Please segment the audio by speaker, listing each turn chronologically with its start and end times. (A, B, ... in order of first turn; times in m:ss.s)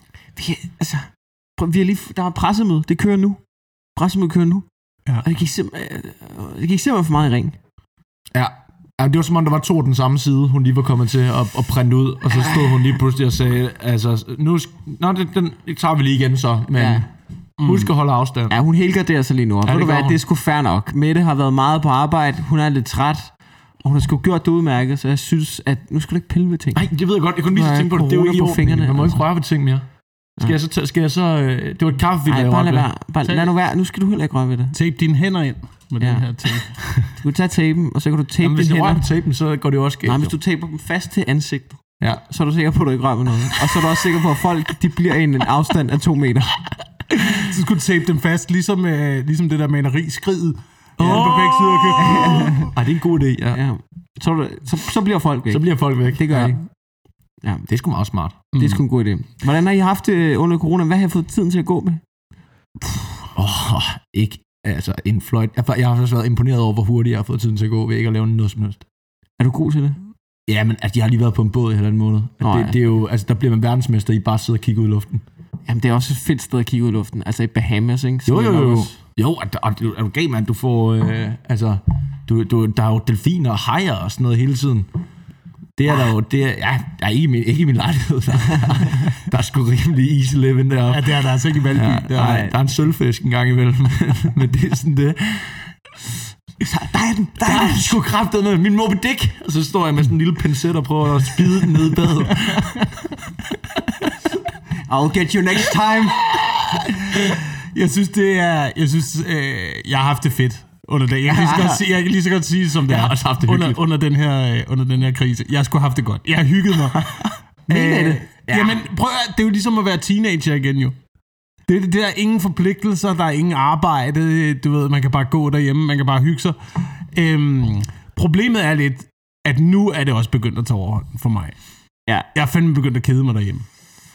0:00.4-0:03.4 A
0:04.0-0:04.7 A
0:05.2-0:07.6 A
0:08.3-0:17.1 B
0:12.3-0:12.9 A
0:16.7-0:17.0 A
0:17.6-0:17.9 C
0:17.6-0:18.5 B
0:18.5-0:26.8 A
0:19.6-0:20.2 B
0:26.8-0:29.8 B
0:27.5-0:29.2 A
0:30.4-0:32.9 B
0:32.3-0:34.8 A
0:33.2-0:33.5 C
0:34.7-0:37.1 C
0:36.0-0:39.0 A
0:38.4-0:40.4 B
0:40.0-0:46.6 A
0:47.2-0:52.7 C
0:51.0-0:53.6 B
0:52.0-0:52.7 A
0:53.5-0:56.6 A
0:55.5-0:56.6 B
0:57.7-0:58.5 B
0:58.5-0:58.8 C
0:58.6-1:02.0 A
1:03.4-1:08.8 B
1:09.4-1:10.0 A
1:10.5-1:15.2 B
1:12.4-1:12.8 A
1:15.7-1:18.9 A
1:18.3-1:24.9 B
1:25.8-1:31.2 B
1:30.9-1:32.5 C
1:31.7-1:35.7 B
1:32.2-1:32.5 A
1:36.6-1:38.0 A
1:37.4-1:42.8 B
1:42.3-1:42.9 C
1:44.9-1:46.3 A
1:46.3-2:01.0 C
1:51.3-1:51.8 A
1:52.9-1:53.8 B
1:57.7-1:58.3 A
2:01.7-2:11.6 C
2:12.3-2:13.7 C